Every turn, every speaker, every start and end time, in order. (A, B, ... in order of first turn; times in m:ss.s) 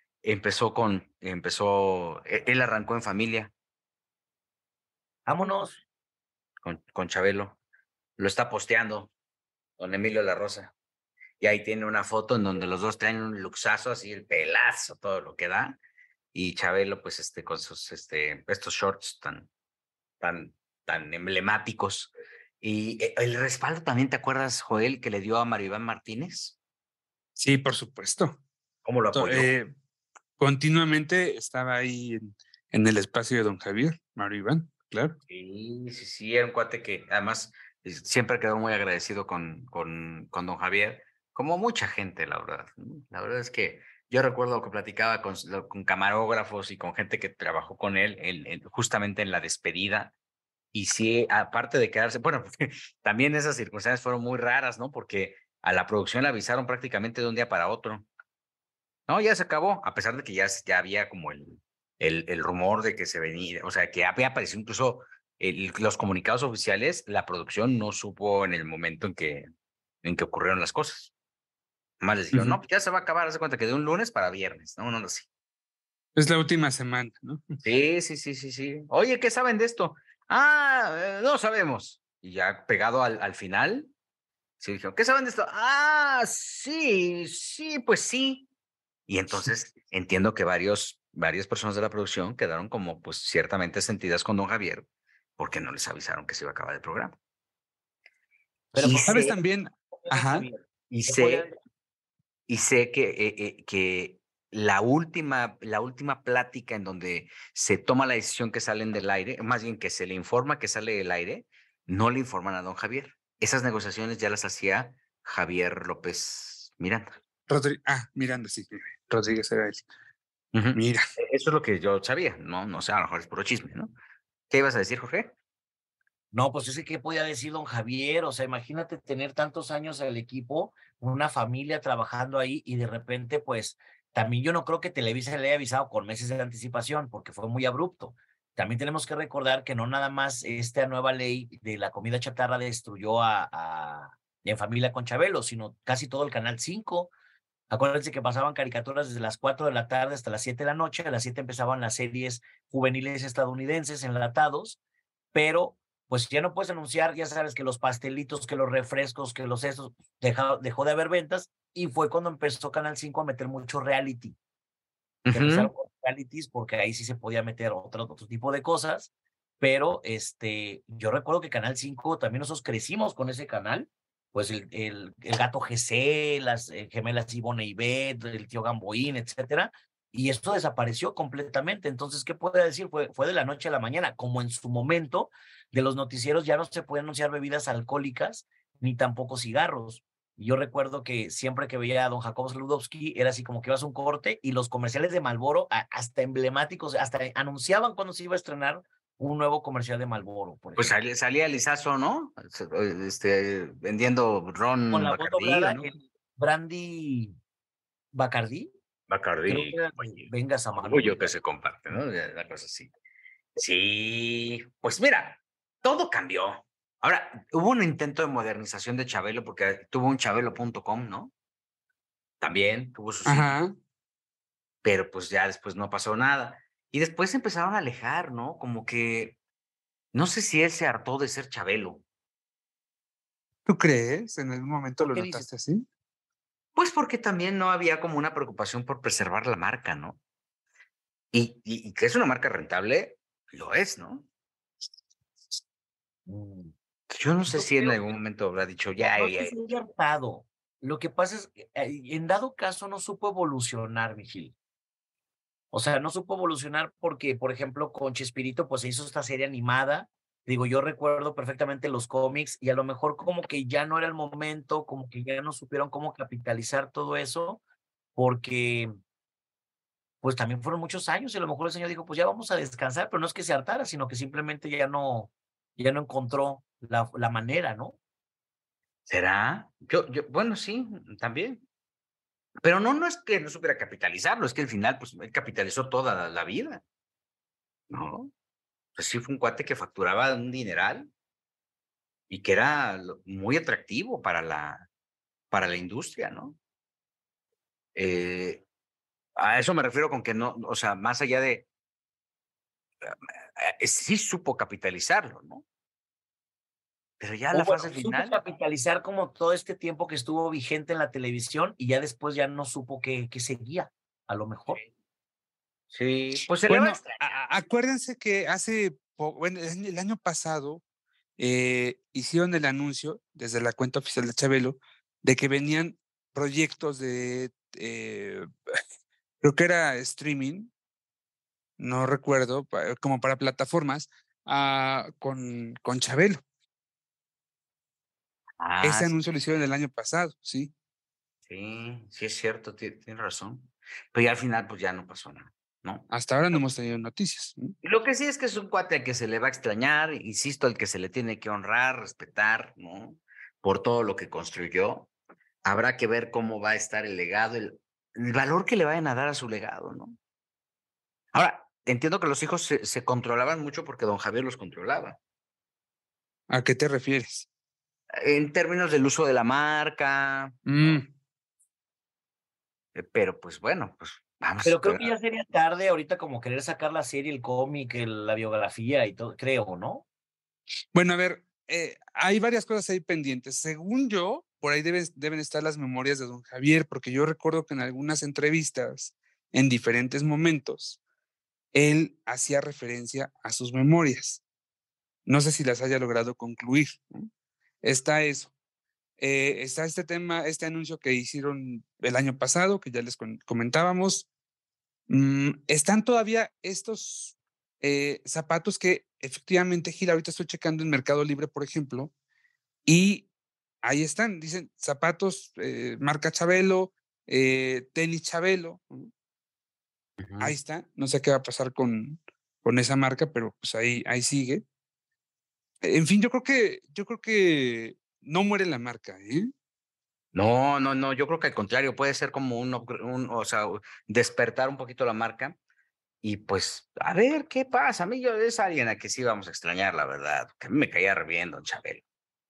0:00.2-0:03.5 A
0:05.2-0:05.8 B
0:06.6-0:07.6 A
0:08.2-0:09.1 A
0:09.8-0:10.7 A
0:11.4-0:15.8 A
0:16.3-0:19.5 A
0:20.2-0:26.6 A
0:27.4-0:28.4 C
0:28.8-0:29.5 A
0:29.1-0:29.7 C
0:30.4-0:35.2 C
0:35.3-0:50.1 A
0:50.7-0:58.0 A
0:59.1-1:09.4 A
1:10.0-1:11.1 A
1:12.0-1:15.3 A
1:12.3-1:12.6 C
1:16.1-1:17.6 C
1:17.6-1:23.9 A
1:24.6-1:28.5 A
1:29.1-1:34.8 A
1:35.4-1:37.1 A
1:38.7-1:39.4 B
1:38.8-1:39.3 A
1:38.9-1:40.5 C
1:39.9-1:41.5 B
1:40.9-1:41.4 A
1:42.5-1:57.2 A
1:57.5-1:59.8 C
2:00.5-2:03.9 A
2:00.7-2:01.0 C
2:04.5-2:05.3 A
2:06.3-2:27.1 B
2:27.7-2:34.8 B
2:35.3-2:44.4 B
2:45.2-2:45.7 A
2:45.3-2:49.1 B
2:49.6-3:21.0 B
3:20.8-3:25.9 A
3:24.9-3:27.3 B
3:28.1-3:28.7 B
3:29.1-3:30.3 A
3:29.5-3:31.3 B
3:30.8-3:32.9 A
3:33.6-3:41.3 A
3:42.4-3:43.5 A
3:43.2-3:43.8 C
3:44.8-3:49.4 A
3:50.1-3:52.0 A
3:53.6-3:55.8 C
3:55.0-3:55.5 B
3:56.7-4:00.2 A
4:01.3-4:04.2 A
4:06.3-4:06.7 B
4:07.1-4:09.5 A
4:07.4-4:08.0 B
4:09.0-4:14.5 B
4:15.7-4:27.6 B
4:28.2-4:28.9 B
4:30.2-4:38.0 B
4:39.1-4:41.6 A
4:42.6-4:46.8 A
4:47.9-4:48.3 A
4:49.0-4:51.1 A
4:52.3-4:54.9 A
4:55.5-4:56.6 A
4:57.9-4:58.6 A
4:59.4-5:01.6 A
5:03.0-5:05.6 A
5:07.2-5:08.4 A
5:07.5-5:14.8 B
5:15.9-5:17.2 A
5:16.7-5:20.8 C
5:21.4-5:28.5 C
5:29.4-5:30.7 C
5:31.8-5:36.4 C
5:38.6-5:39.2 A
5:38.8-5:40.7 C
5:41.5-5:46.0 A
5:46.1-5:47.7 C
5:47.8-5:55.1 A
5:55.6-6:00.2 A
6:01.3-6:05.2 A
6:06.5-6:07.5 C
6:08.1-6:11.0 A
6:10.6-6:11.1 C
6:12.9-6:15.1 A
6:14.6-6:20.0 B
6:20.9-6:31.0 C
6:31.7-6:34.4 C
6:35.2-6:37.3 C
6:37.8-6:38.5 C
6:39.2-6:44.3 C
6:45.1-6:52.1 C
6:52.8-6:53.3 C
6:53.8-6:59.1 C
7:00.2-7:00.5 A
7:00.4-7:04.6 C
7:05.8-7:09.5 C
7:10.3-7:15.6 A
7:16.2-7:22.0 A